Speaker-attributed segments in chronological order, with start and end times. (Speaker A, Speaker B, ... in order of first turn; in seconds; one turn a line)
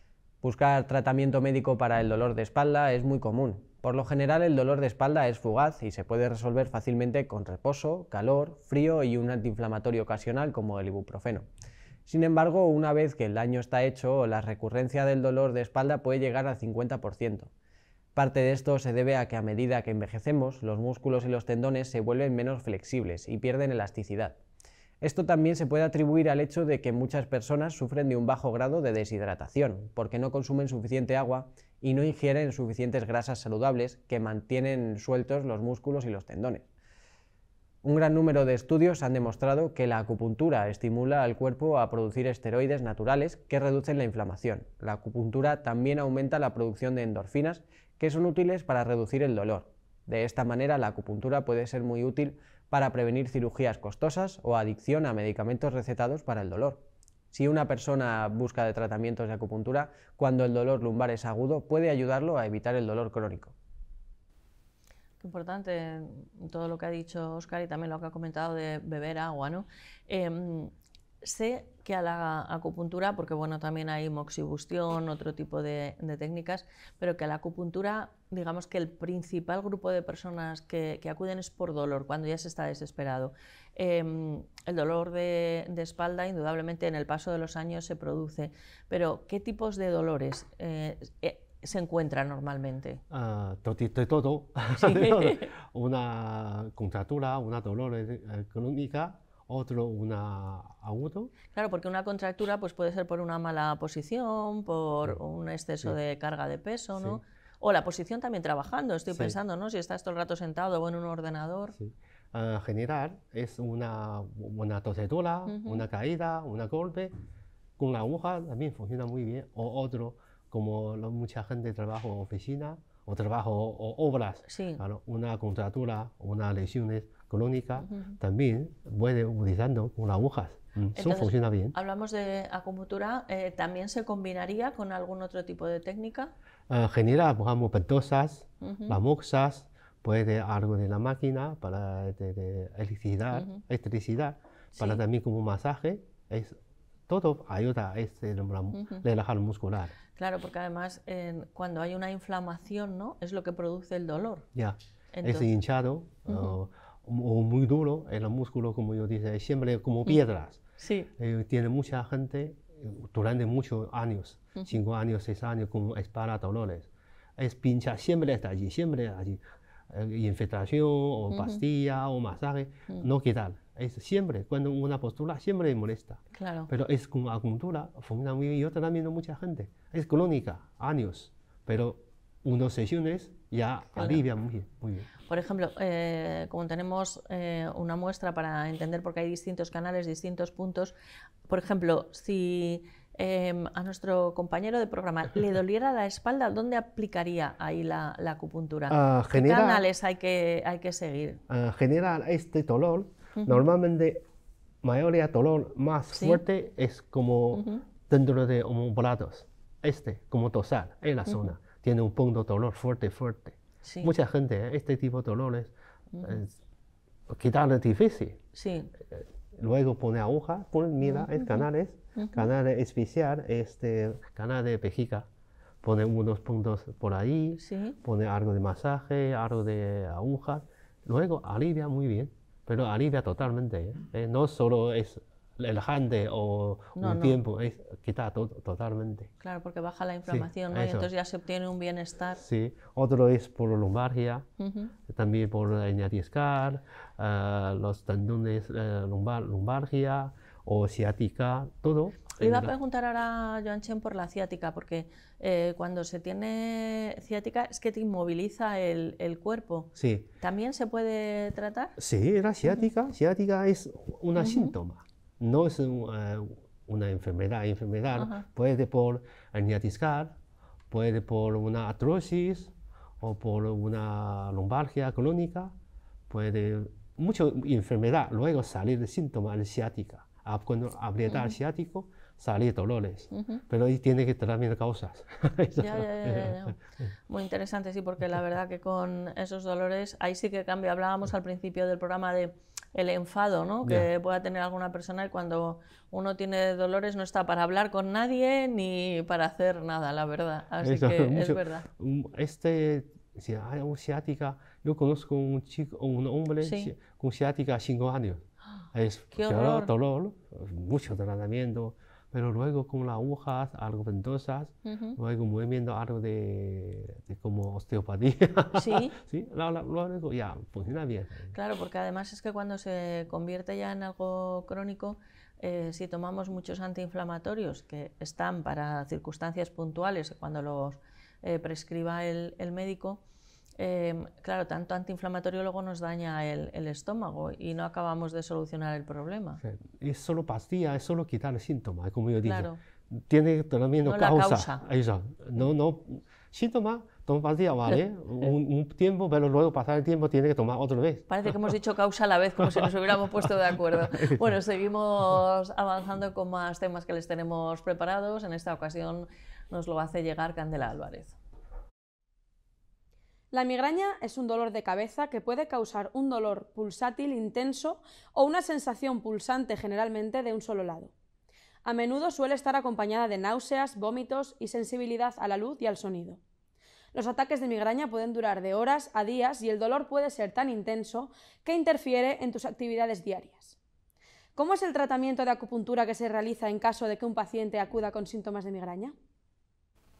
Speaker A: 0.4-11.5
Speaker A: 12.1-17.5
Speaker A: 18.1-24.4
Speaker A: 25.0-36.7
Speaker A: 37.8-63.5
Speaker B: 65.2-70.7
Speaker B: 71.2-93.0
Speaker C: 93.1-101.3
Speaker B: 94.8-95.5
Speaker B: 101.5-111.8
Speaker C: 109.1-109.4
Speaker C: 111.8-117.1
Speaker B: 115.5-115.8
Speaker C: 117.8-131.8
Speaker B: 124.5-124.8
Speaker B: 127.8-128.2
Speaker B: 130.9-136.3
Speaker C: 136.7-146.6
Speaker B: 138.6-139.0
Speaker B: 143.3-143.6
Speaker B: 144.8-145.0
Speaker C: 147.1-150.0
Speaker B: 148.8-149.0
Speaker B: 150.2-154.5
Speaker C: 154.5-160.6
Speaker B: 155.1-155.5
Speaker B: 156.3-156.6
Speaker B: 160.8-161.1
Speaker C: 161.2-185.1
Speaker B: 171.3-171.6
Speaker B: 176.3-176.7
Speaker B: 184.0-184.2
Speaker B: 185.3-190.9
Speaker B: 191.5-201.4
Speaker C: 198.9-199.8
Speaker C: 201.5-204.2
Speaker B: 203.4-203.6
Speaker C: 204.8-216.5
Speaker B: 206.1-206.4
Speaker B: 207.5-207.8
Speaker B: 211.3-211.5
Speaker B: 213.9-214.1
Speaker B: 216.1-216.4
Speaker C: 217.3-218.4
Speaker B: 218.6-218.9
Speaker C: 219.1-225.3
Speaker B: 221.1-221.6
Speaker B: 222.2-222.5
Speaker C: 225.8-239.3
Speaker B: 227.6-228.0
Speaker B: 237.0-237.4
Speaker B: 239.4-242.4
Speaker C: 240.3-241.1
Speaker C: 242.4-244.5
Speaker B: 244.6-244.9
Speaker C: 245.1-252.7
Speaker B: 252.3-262.0
Speaker C: 260.0-260.3
Speaker C: 262.0-270.4
Speaker B: 264.4-264.7
Speaker B: 268.1-268.4
Speaker C: 270.9-275.7
Speaker C: 276.3-286.8
Speaker B: 281.3-281.5
Speaker B: 283.3-283.6
Speaker B: 285.8-286.8
Speaker B: 287.3-301.9
Speaker C: 300.8-321.6
Speaker B: 306.6-306.9
Speaker B: 309.3-309.9
Speaker B: 314.9-315.2
Speaker B: 318.7-319.1
Speaker B: 321.5-333.2
Speaker B: 333.8-339.6
Speaker C: 339.6-351.3
Speaker B: 342.4-342.8
Speaker B: 344.0-344.8
Speaker B: 351.3-361.4
Speaker C: 354.1-354.5
Speaker D: 363.5-371.1
Speaker D: 371.9-376.4
Speaker D: 377.1-383.8
Speaker D: 384.6-389.1